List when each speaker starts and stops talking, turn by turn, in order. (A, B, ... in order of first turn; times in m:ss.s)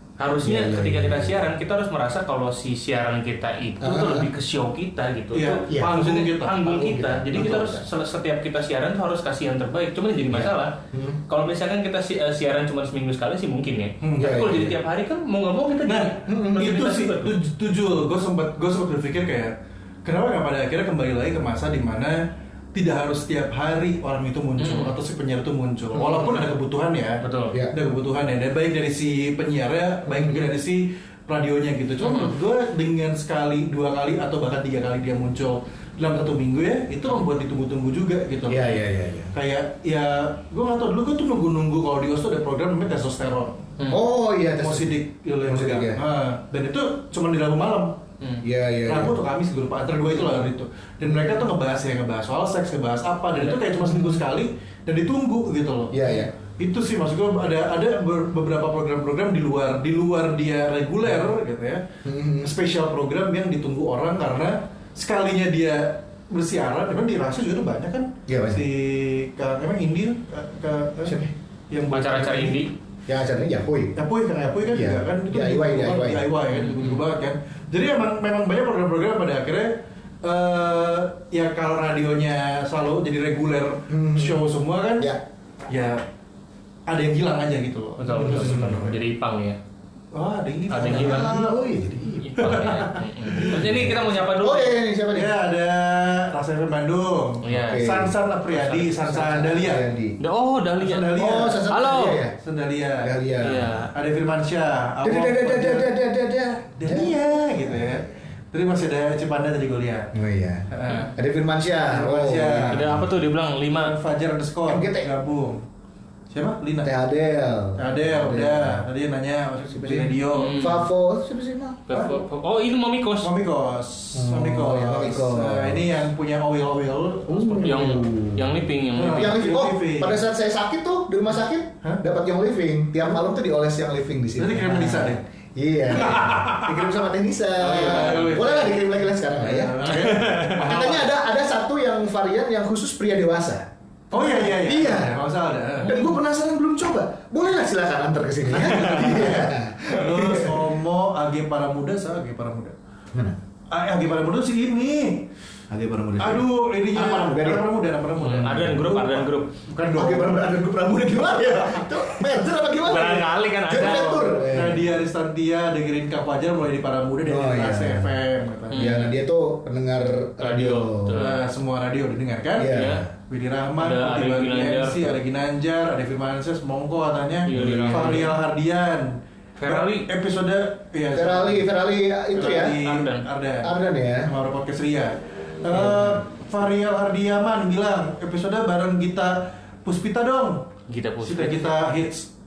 0:00.2-0:10.7 A
0:00.4-0:01.5 B
0:03.8-0:04.3 B
0:05.3-0:06.6 C
0:05.7-0:06.0 B
0:06.5-0:07.8 B
0:10.3-0:11.2 B
0:11.3-0:17.3 A
0:14.0-0:14.4 C
0:14.2-0:14.8 B
0:15.8-0:19.5 C
0:16.2-0:16.6 B
0:20.0-0:38.8 C
0:24.6-0:24.9 A
0:26.0-0:26.4 B
0:27.2-0:27.5 A
0:30.2-0:30.5 B
0:32.0-0:32.3 A
0:38.5-0:39.3 B
0:39.3-0:43.7 C
0:43.9-0:46.0 B
0:44.6-0:48.0 C
0:48.4-0:49.2 B
0:48.8-1:01.8 C
0:53.5-0:54.2 A
0:55.9-0:56.3 B
1:02.0-1:02.5 B
1:02.4-1:12.6 C
1:08.3-1:08.6 B
1:11.0-1:11.3 B
1:11.9-1:12.7 A
1:13.1-1:13.9 B
1:14.0-1:25.1 C
1:14.7-1:16.3 B
1:16.5-1:17.0 A
1:23.9-1:24.4 B
1:25.7-1:26.0 C
1:26.9-1:29.0 C
1:28.0-1:29.6 A
1:28.2-1:28.9 B
1:30.1-1:31.8 C
1:30.7-1:31.4 A
1:30.8-1:32.7 B
1:32.2-1:34.8 A
1:32.4-1:33.9 C
1:33.3-1:35.4 B
1:35.1-1:39.8 C
1:37.4-1:37.8 A
1:37.5-1:40.2 B
1:40.2-1:42.2 A
1:40.8-1:41.7 C
1:41.1-1:42.4 B
1:42.4-1:43.1 C
1:43.0-1:43.7 B
1:43.4-1:43.9 A
1:43.9-1:45.9 C
1:45.0-1:47.2 B
1:46.8-1:50.1 C
1:50.1-1:53.1 B
1:50.7-1:51.1 C
1:51.9-1:52.9 C
1:52.7-1:53.9 A
1:53.7-1:55.6 C
1:54.6-1:55.1 B
1:56.3-1:56.9 C
1:56.8-1:58.8 B
1:57.8-2:00.7 C
1:59.7-2:02.2 B
2:00.3-2:00.8 A
2:01.9-2:03.3 A
2:03.2-2:08.1 C
2:04.1-2:06.0 B
2:07.3-2:09.4 A
2:07.3-2:25.2 B
2:08.9-2:10.2 C
2:14.4-2:15.2 C
2:15.9-2:16.9 C
2:17.6-2:18.8 C
2:17.6-2:18.7 A
2:19.4-2:21.1 C
2:19.8-2:20.9 A
2:24.1-2:26.0 C
2:25.8-2:30.7 B
2:28.5-2:32.7 C
2:33.1-2:33.4 B
2:33.7-2:35.3 C
2:35.7-2:37.6 B
2:36.2-2:40.6 C
2:38.2-2:39.5 A
2:39.9-2:44.9 B
2:41.3-2:42.2 C
2:42.8-2:44.4 A
2:43.8-2:48.9 C
2:47.2-2:48.2 B
2:48.7-2:51.2 B
2:48.7-2:49.1 A
2:50.4-2:51.4 A
2:51.2-3:01.7 C
2:52.6-2:53.1 B
2:52.6-2:53.0 A
2:53.8-2:55.2 A
2:57.5-2:58.4 A
2:57.5-2:58.3 B
2:59.6-3:00.1 A
3:01.1-3:02.8 B
3:02.3-3:03.7 C
3:02.8-3:03.3 A
3:03.6-3:04.3 B
3:04.2-3:10.6 C
3:05.7-3:06.1 B
3:10.9-3:11.7 A
3:11.2-3:12.3 C